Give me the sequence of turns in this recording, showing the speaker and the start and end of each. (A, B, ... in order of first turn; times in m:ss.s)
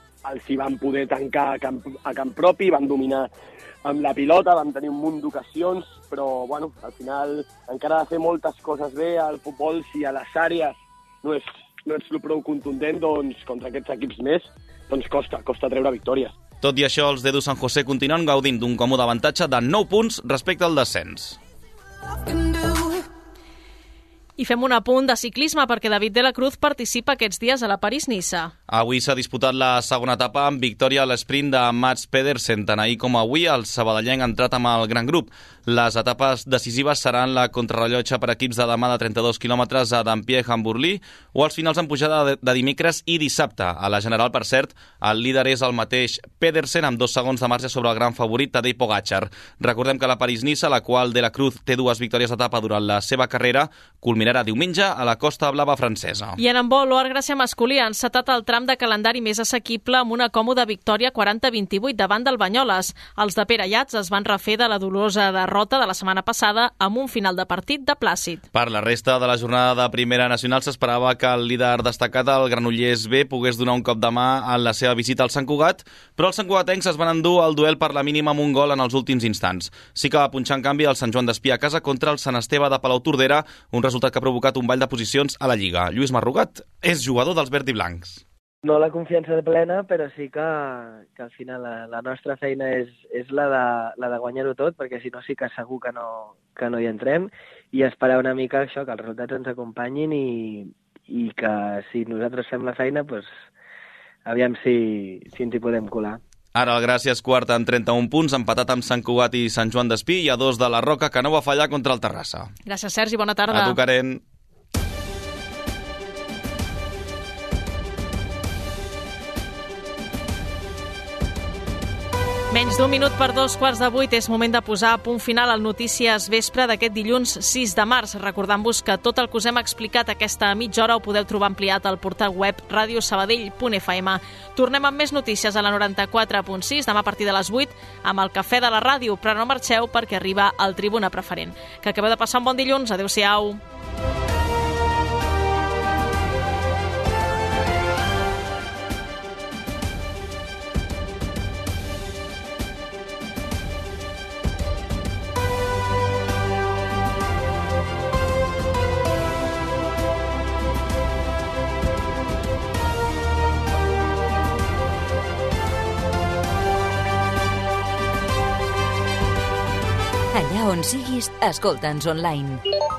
0:00.2-0:03.3 A
0:03.8-0:16.4 A
0:16.6-0:21.4 B
0:24.4-0:28.5 C
0:28.7-0:56.4 B
0:56.4-1:08.4 C
1:08.5-1:28.2 B
1:28.6-1:43.3 D
1:44.2-1:46.2 D
1:46.6-1:52.5 B
1:52.7-1:53.8 C
1:53.5-1:54.2 B
2:02.5-2:23.6 C
2:50.3-2:52.6 E